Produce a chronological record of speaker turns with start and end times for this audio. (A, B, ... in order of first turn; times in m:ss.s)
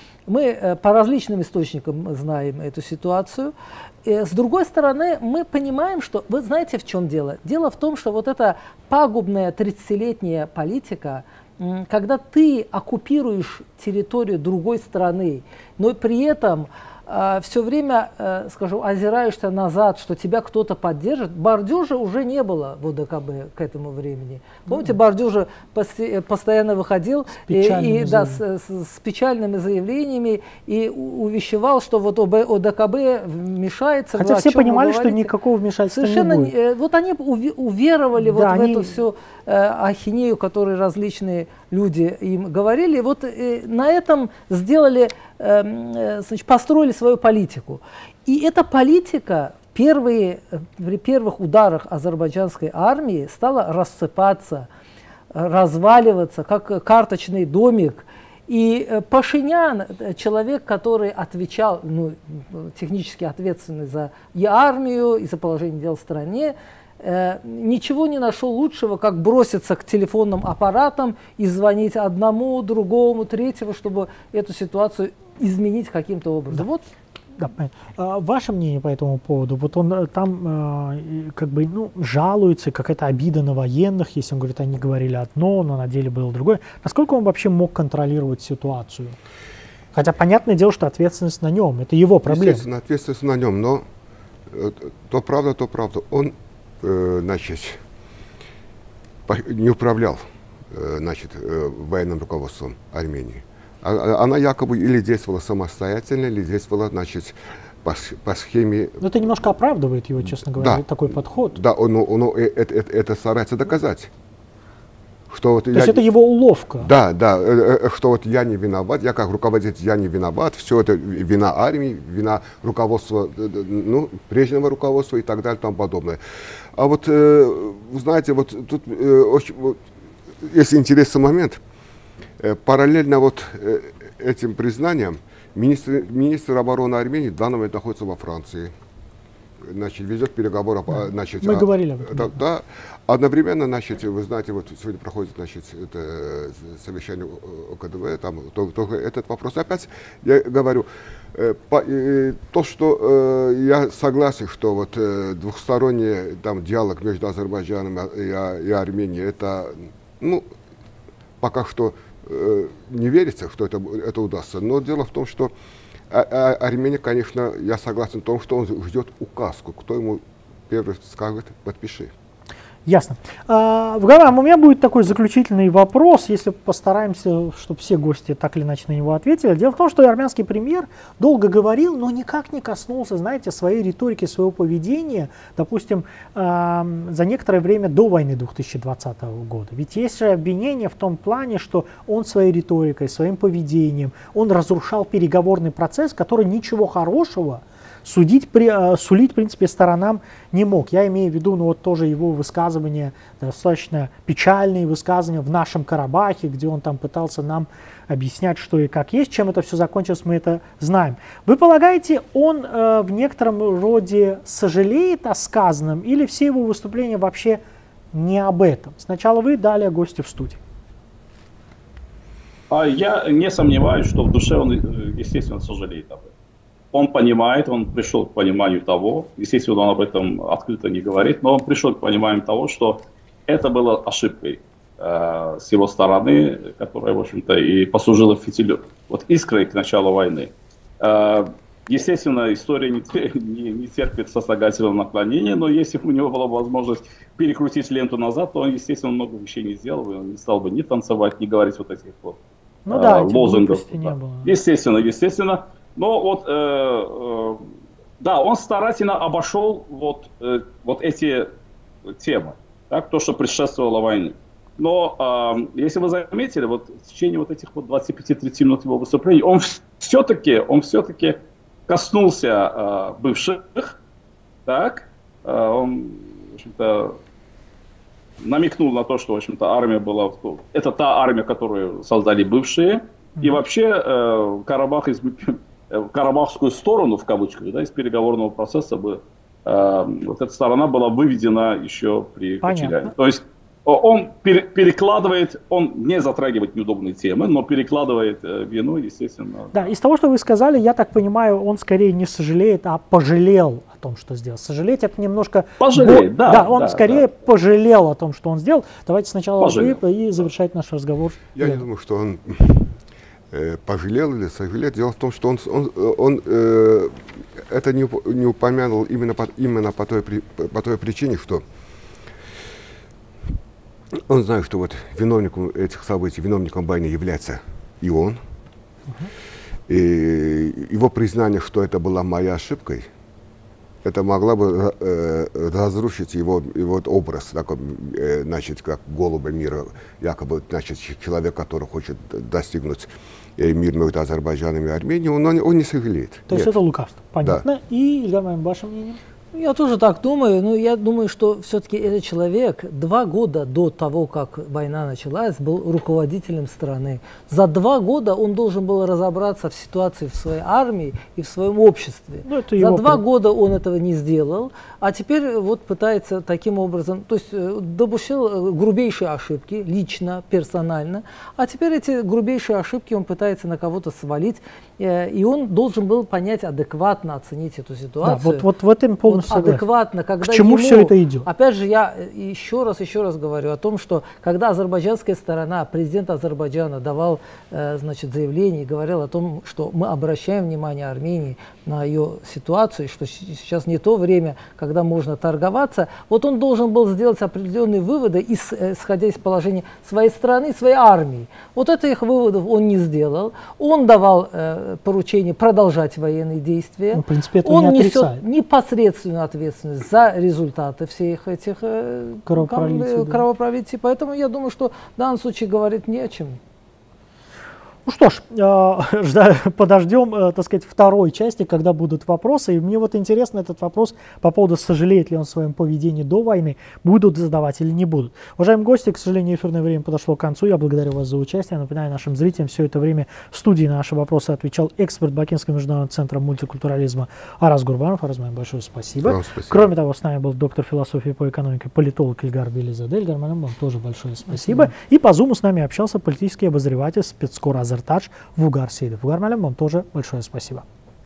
0:00.3-0:03.5 A
0:04.0-0:35.3 A
0:27.5-0:28.4 B
0:34.2-0:36.5 B
0:35.9-0:54.7 A
0:38.2-0:39.0 B
0:55.3-1:16.9 A
1:17.4-1:29.2 B
1:29.9-1:32.6 B
1:32.3-1:33.8 C
1:34.5-1:37.8 C
1:39.3-1:49.0 C
1:49.0-1:51.6 B
1:50.2-1:54.1 C
1:55.3-1:56.0 C
1:55.7-1:56.9 B
1:56.8-2:06.2 C
2:06.8-2:09.8 C
2:10.4-2:11.6 C
2:12.4-2:18.7 C
2:19.7-2:40.5 C
2:20.9-2:22.4 B
2:41.4-2:45.5 C
2:46.1-2:52.1 C
2:52.9-3:37.6 B
3:38.1-3:40.6 B
3:42.7-3:46.3 D
3:46.9-4:17.6 D
4:12.9-4:14.6 B
4:18.2-4:21.5 D
4:22.1-4:34.0 D
4:34.7-4:37.2 D
4:38.4-4:59.9 D
4:52.6-4:53.1 B
4:59.7-5:11.9 B
5:05.8-5:07.3 D
5:09.6-5:10.0 D
5:11.6-5:12.9 C
5:13.5-5:21.6 C
5:24.3-5:28.4 C
5:29.9-5:33.1 C
5:34.0-5:46.7 C
5:46.5-5:49.2 B
5:49.5-6:18.7 A
6:02.5-6:03.2 B
6:18.2-6:19.8 B
6:19.3-6:56.6 A
6:20.4-6:21.5 B
6:47.1-6:48.4 B
6:52.5-6:53.4 B
6:58.1-7:30.8 B
7:19.2-7:19.9 C